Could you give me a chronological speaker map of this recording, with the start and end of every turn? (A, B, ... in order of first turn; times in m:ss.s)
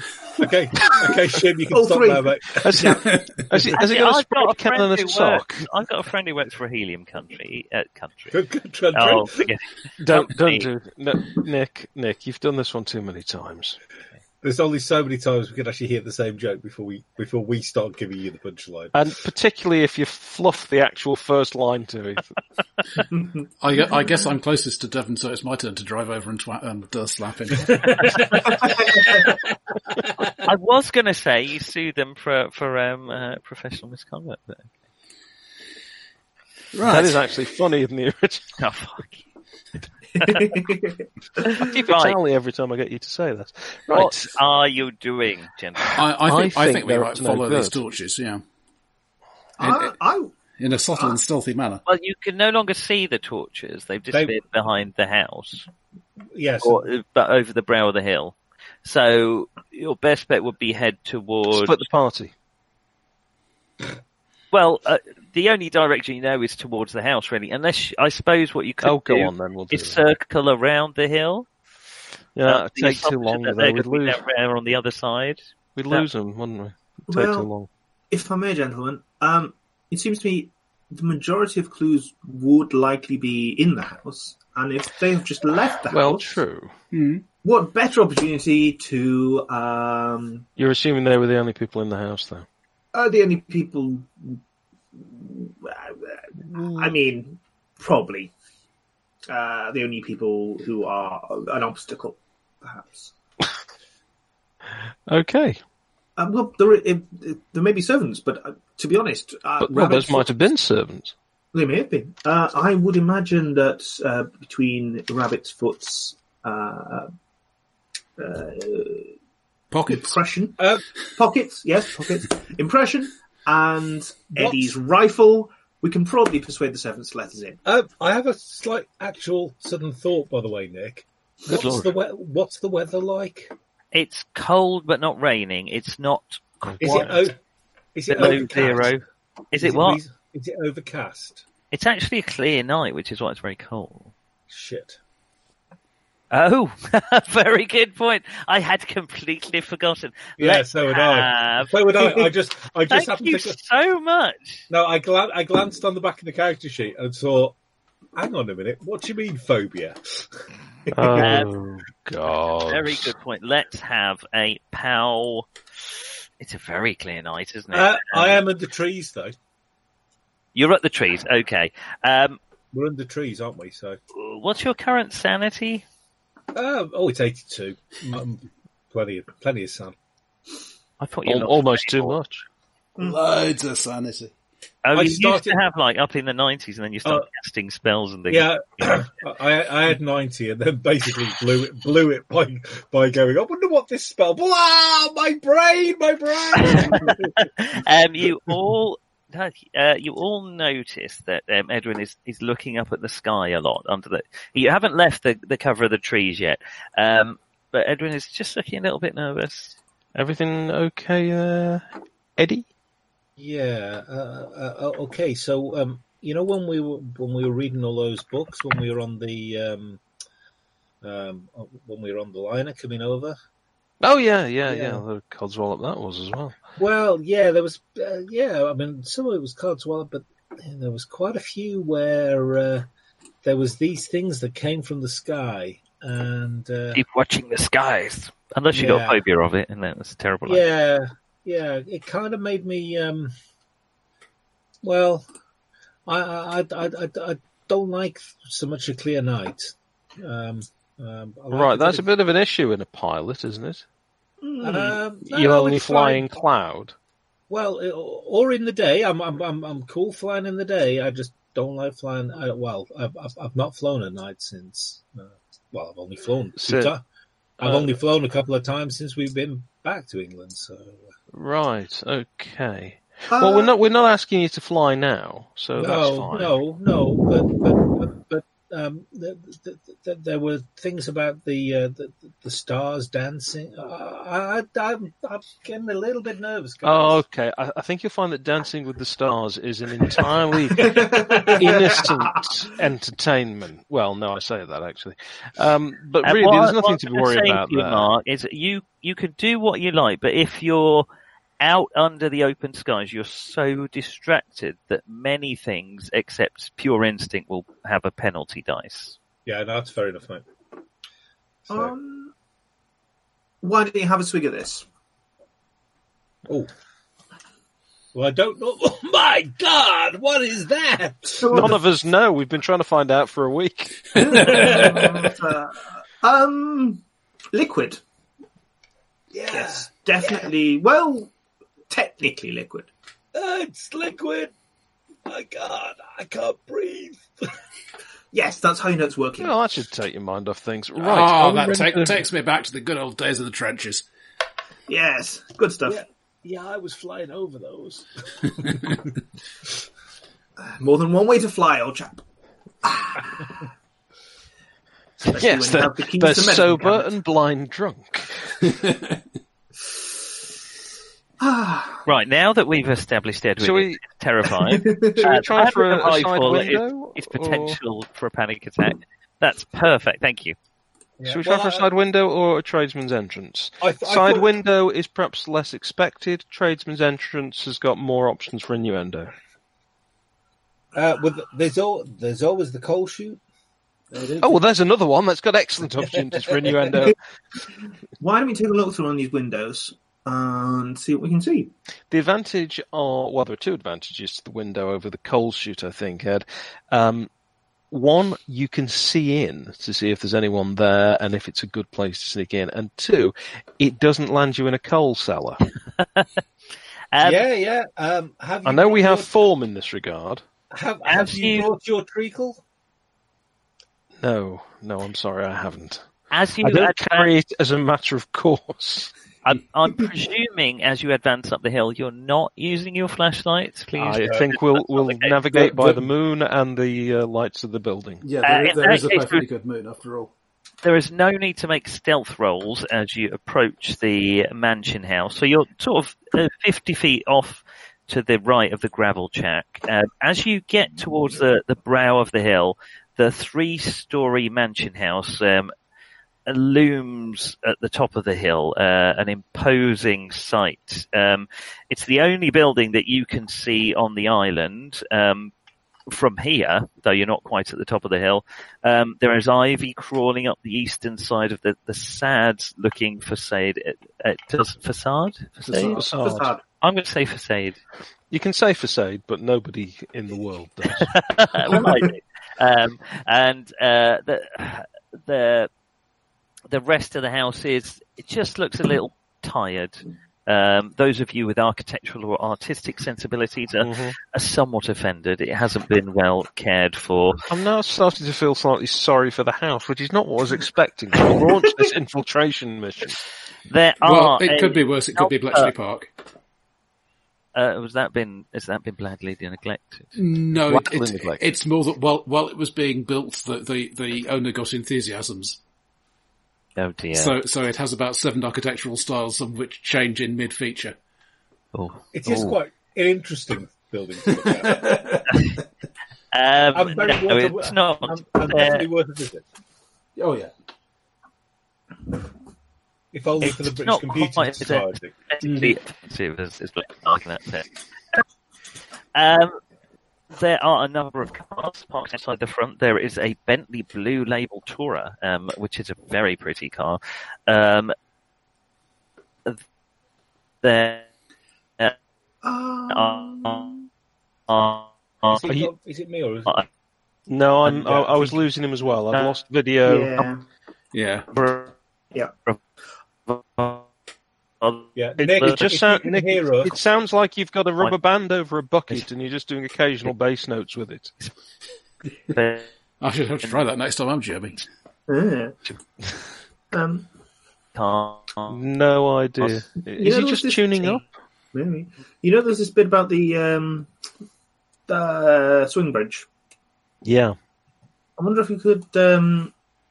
0:00.4-0:02.6 A
0:01.7-0:03.0 B
0:02.6-0:05.7 C
0:03.0-0:03.5 D
0:03.8-0:08.4 E
0:08.3-0:09.5 A
0:08.9-0:10.7 E
0:10.0-0:13.8 C
0:14.4-0:19.0 A
0:18.9-0:22.3 C
0:23.1-0:23.5 B
0:23.6-0:28.4 D
0:27.7-0:28.4 A
0:28.5-0:29.2 B
0:30.4-0:34.7 E
0:36.7-0:37.2 D
0:36.8-0:38.5 C
0:38.6-0:39.2 E
0:40.2-0:41.0 B
0:40.2-0:40.5 E
0:41.4-0:42.2 E
0:41.6-0:44.2 C
0:43.9-0:46.0 E
0:46.0-0:48.4 D
0:46.2-0:47.8 C
0:49.6-0:50.4 B
0:50.6-0:51.8 D
0:51.9-0:55.7 E
0:56.3-0:56.8 A
0:56.6-1:01.8 E
1:01.5-1:02.3 C
1:04.5-1:11.5 E
1:08.8-1:10.0 C
1:12.4-1:14.2 C
1:12.5-1:16.1 E
1:15.8-1:17.7 C
1:17.1-1:17.5 B
1:18.1-1:26.4 B
1:25.9-1:26.7 C
1:26.9-1:27.2 D
1:27.4-1:30.5 B
1:30.6-1:32.5 C
1:32.9-1:34.4 B
1:35.0-1:38.3 B
1:36.6-1:36.9 C
1:39.3-1:43.1 B
1:45.1-1:45.6 C
1:46.2-1:50.3 B
1:49.6-1:51.2 C
1:51.5-1:57.1 B
1:58.2-1:59.1 B
1:59.7-2:00.2 D
1:59.9-2:07.6 B
2:00.6-2:00.8 A
2:04.4-2:04.7 A
2:07.7-2:13.5 A
2:13.9-2:17.3 E
2:16.8-2:17.1 C
2:16.8-2:17.4 A
2:18.0-2:18.9 A
2:18.1-2:20.0 E
2:19.6-2:21.4 A
2:21.7-2:24.1 E
2:24.5-2:25.0 A
2:26.3-2:32.3 E
2:30.4-2:33.6 A
2:32.9-2:34.6 E
2:34.7-2:37.6 A
2:38.2-2:40.0 A
2:40.9-2:41.3 A
2:40.9-2:43.1 C
2:41.2-2:41.5 E
2:42.7-2:45.5 E
2:46.4-2:48.4 E
2:47.7-2:49.3 A
2:50.6-2:52.4 E
2:52.7-2:54.0 A
2:54.1-2:55.8 E
2:56.5-3:00.0 A
3:01.0-3:02.2 E
3:01.2-3:02.4 C
3:03.0-3:04.3 D
3:04.8-3:09.0 E
3:04.9-3:05.6 A
3:08.3-3:17.4 A
3:16.6-3:29.8 E
3:30.2-3:31.8 C
3:32.4-3:32.7 C
3:33.4-3:40.0 A
3:41.0-3:43.4 A
3:44.0-3:46.6 C
3:44.6-3:45.0 A
3:46.8-3:52.9 A
3:53.4-3:57.0 A
3:56.9-4:00.6 E
3:58.7-3:59.2 A
4:00.5-4:03.3 A
4:04.8-4:05.3 A
4:06.1-4:12.1 A
4:11.5-4:13.8 C
4:14.4-4:15.0 B
4:14.6-4:16.3 A
4:15.3-4:17.0 C
4:17.5-4:27.0 A
4:26.6-4:26.9 C
4:27.6-4:28.0 C
4:27.6-4:31.0 A
4:31.3-4:36.6 C
4:33.3-4:33.8 B
4:35.8-4:47.2 A
4:46.8-4:58.1 C
4:50.8-4:52.4 B
4:51.4-4:51.7 A
4:56.2-5:01.1 E
5:01.6-5:09.2 E
5:09.5-5:10.4 A
5:11.7-5:11.9 A
5:11.7-5:12.3 B
5:13.6-5:14.9 B
5:18.1-5:21.7 A
5:21.4-5:21.8 B
5:21.5-5:24.4 C
5:24.1-5:25.2 D
5:24.2-5:28.0 B
5:24.4-5:25.0 A
5:29.3-5:30.5 A
5:29.5-5:31.3 B
5:31.9-5:32.9 B
5:33.3-5:34.5 A
5:35.3-5:37.5 A
5:38.3-5:39.5 B
5:39.4-5:42.2 C
5:41.0-5:44.0 D
5:44.9-5:46.0 B
5:45.8-5:48.9 A
5:50.6-5:52.2 B
5:52.8-5:53.6 B
5:55.2-5:57.1 B
5:55.3-5:58.6 C
5:58.6-5:59.2 D
6:01.4-6:02.0 B
6:02.1-6:10.6 E
6:03.6-6:04.0 C
6:04.7-6:05.3 B
6:05.2-6:07.8 C
6:11.2-6:11.9 A
6:11.3-6:19.3 C
6:13.8-6:14.5 A
6:20.9-6:23.4 A
6:24.1-6:24.5 D
6:24.4-6:27.2 C
6:28.2-6:31.7 B
6:32.1-6:37.3 C
6:37.9-6:45.6 C
6:46.0-6:46.4 E
6:47.1-6:47.4 E
6:47.2-6:49.3 A
6:48.6-6:50.4 C
6:50.7-6:52.6 A
6:51.0-6:51.7 E
6:54.2-6:56.0 C
6:56.3-6:57.3 E
6:56.6-6:59.1 C
6:59.4-7:05.4 E
7:04.0-7:08.2 C
7:05.5-7:06.0 D
7:08.2-7:10.3 D
7:08.4-7:09.5 E
7:10.8-7:25.7 E
7:26.5-7:35.5 E
7:36.1-7:46.0 E
7:45.6-7:46.1 D
7:45.8-7:46.6 B
7:46.0-7:46.5 C
7:46.8-7:47.8 E
7:48.3-7:51.2 C
7:51.0-7:55.7 E
7:56.7-8:07.4 E
8:03.8-8:04.2 C
8:07.5-8:13.2 C
8:13.7-8:15.7 E
8:14.0-8:16.1 D
8:17.6-8:20.2 E
8:20.2-8:25.6 D
8:20.6-8:21.4 C
8:26.8-8:27.4 E
8:27.1-8:31.0 D
8:31.7-8:32.6 E
8:32.1-8:35.1 A
8:34.3-8:35.6 D
8:35.3-8:35.6 E
8:36.3-8:38.9 E
8:36.7-8:39.4 A
8:40.2-8:40.5 D
8:43.1-8:45.1 A
8:43.4-8:47.7 E
8:45.4-8:45.8 D
8:49.2-8:49.6 E
8:50.3-8:57.9 E
9:00.6-9:01.1 E
9:02.4-9:03.8 B
9:02.9-9:03.7 E
9:04.5-9:05.4 E
9:05.3-9:06.6 A
9:07.3-9:10.3 C
9:07.8-9:08.3 A
9:09.8-9:10.4 B
9:10.9-9:11.3 D
9:11.3-9:11.8 E
9:13.3-9:13.9 E
9:14.6-9:15.6 E
9:15.0-9:16.8 A
9:15.2-9:21.1 C
9:22.3-9:22.7 E
9:23.0-9:24.6 D
9:25.1-9:25.6 B
9:26.7-9:27.1 B
9:27.8-9:28.6 E
9:28.5-9:31.0 C
9:30.0-9:33.9 B
9:34.9-9:36.3 B
9:37.0-9:37.4 C
9:38.2-9:39.5 B